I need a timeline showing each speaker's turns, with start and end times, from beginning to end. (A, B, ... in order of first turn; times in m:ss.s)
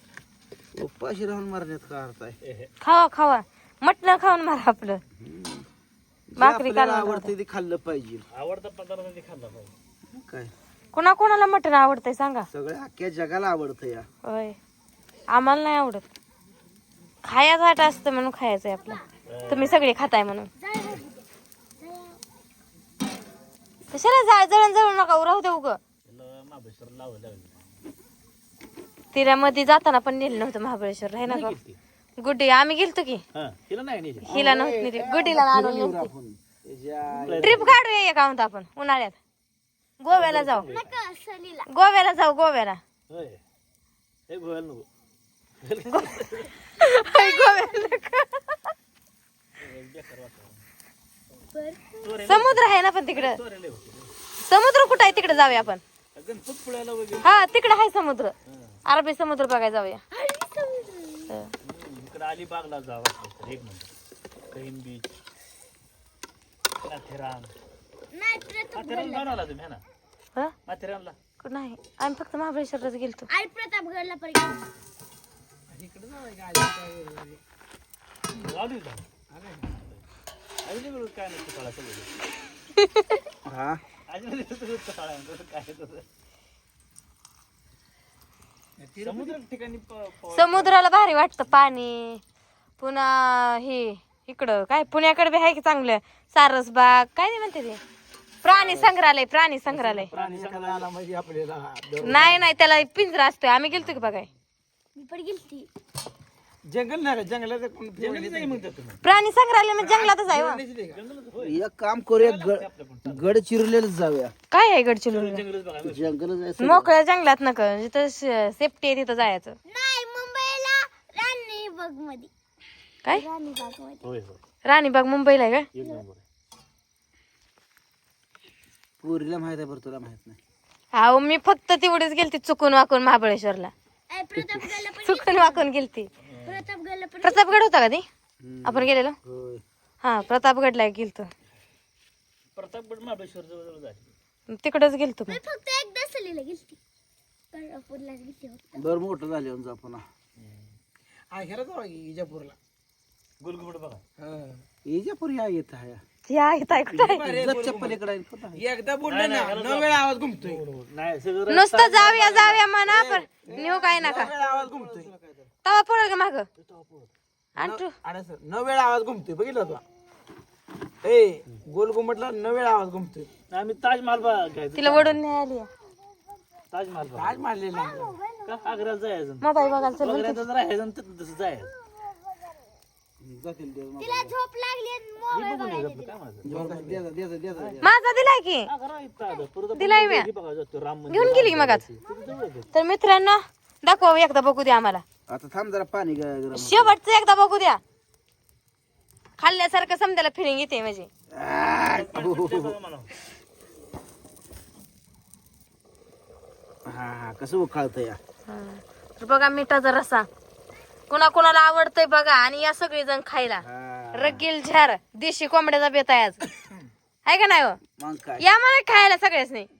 0:00.7-0:02.4 A
0:02.4-0:02.7 B
0:02.8-0:05.0 C
0:05.2-0:05.6 A
0:06.3-0:08.2 A
0:06.4-0:07.3 C
0:08.3-0:09.7 B
0:10.1-0:10.5 A
0:10.9-0:12.5 C
0:12.5-0:14.0 A
0:14.2-0:14.6 C
0:15.3-0:16.0 C
0:17.2-0:20.5 C
0:19.3-0:19.8 B
0:20.6-0:22.2 D
0:23.9-0:25.8 C
0:26.0-0:27.7 B
0:29.1-0:31.6 C
0:31.2-0:31.8 B
0:32.2-0:33.2 C
0:33.3-0:34.3 B
0:34.2-0:36.1 C
0:34.3-0:37.7 A
0:37.1-0:37.7 B
0:37.4-0:39.2 C
0:40.0-0:40.7 C
0:40.1-0:41.0 B
0:40.7-0:41.7 D
0:41.7-0:42.8 C
0:43.1-0:43.4 B
0:44.3-0:44.8 B
0:45.6-0:46.5 B
0:45.9-0:48.7 C
0:47.0-0:47.9 D
0:49.6-0:50.6 B
0:51.4-0:52.1 D
0:52.0-0:54.1 B
0:52.2-0:53.4 C
0:54.4-0:55.8 C
0:54.8-0:57.5 B
0:57.2-0:58.3 C
0:58.5-0:58.8 B
0:58.8-1:00.0 C
1:00.1-1:01.4 D
1:01.6-1:03.9 B
1:04.5-1:05.1 B
1:06.8-1:07.5 B
1:08.1-1:09.4 D
1:08.7-1:09.8 B
1:10.6-1:11.1 B
1:11.4-1:13.3 C
1:13.3-1:14.7 D
1:15.7-1:17.4 E
1:18.3-1:19.0 B
1:19.3-1:19.7 E
1:20.6-1:22.1 B
1:22.8-1:23.2 C
1:23.4-1:23.8 A
1:24.1-1:26.0 B
1:28.8-1:29.4 E
1:29.0-1:30.8 B
1:30.3-1:32.2 C
1:32.8-1:37.8 C
1:38.4-1:40.1 C
1:39.7-1:40.9 B
1:40.1-1:42.4 E
1:42.0-1:44.3 C
1:43.7-1:44.1 B
1:44.9-1:45.7 D
1:46.7-1:48.7 E
1:48.0-1:49.0 B
1:49.0-1:50.6 C
1:49.8-1:51.0 E
1:50.9-1:51.6 B
1:51.4-1:54.3 A
1:52.2-1:53.4 B
1:54.5-1:55.4 C
1:55.1-1:56.1 B
1:55.8-1:56.9 A
1:56.6-1:59.5 C
1:59.6-2:02.3 D
2:03.1-2:04.0 D
2:04.0-2:04.4 B
2:04.6-2:05.7 C
2:05.8-2:06.2 B
2:09.0-2:10.4 A
2:10.9-2:13.7 C
2:14.1-2:15.7 D
2:15.0-2:16.1 C
2:16.2-2:16.7 B
2:16.4-2:17.6 D
2:17.2-2:18.0 C
2:18.4-2:19.6 A
2:18.6-2:19.2 C
2:20.0-2:21.3 C
2:22.5-2:24.1 B
2:24.5-2:25.4 C
2:25.3-2:26.8 D
2:27.5-2:28.7 D
2:28.8-2:30.0 A
2:30.4-2:30.7 B
2:31.3-2:32.6 E
2:33.4-2:34.0 B
2:34.2-2:34.6 E
2:34.8-2:36.0 A
2:36.3-2:37.2 C
2:36.9-2:38.0 E
2:37.2-2:38.6 A
2:38.5-2:40.6 E
2:39.0-2:42.6 B
2:41.5-2:44.3 C
2:42.8-2:45.1 E
2:43.5-2:45.5 A
2:45.6-2:46.4 C
2:46.6-2:47.1 B
2:47.6-2:47.9 C
2:47.6-2:49.8 E
2:51.0-2:53.3 E
2:53.5-2:55.2 B
2:54.8-2:55.7 C
2:56.7-2:57.4 B
2:57.1-2:58.2 E
2:57.7-2:58.7 D
2:58.4-3:01.7 B
2:59.4-3:00.4 C
2:59.6-3:00.0 D
3:02.1-3:02.5 D
3:03.2-3:04.3 A
3:04.0-3:06.2 D
3:05.3-3:06.5 B
3:06.4-3:07.0 E
3:06.4-3:07.9 A
3:07.8-3:08.7 C
3:08.7-3:12.7 B
3:09.7-3:10.3 C
3:11.1-3:11.8 C
3:12.7-3:15.0 C
3:15.3-3:16.9 A
3:16.5-3:17.8 C
3:19.4-3:21.1 C
3:21.3-3:22.7 A
3:21.8-3:23.1 B
3:26.9-3:28.2 A
3:28.5-3:30.3 C
3:31.1-3:36.4 C
3:33.6-3:34.4 A
3:37.2-3:37.8 C
3:38.0-3:38.4 A
3:38.4-3:39.7 C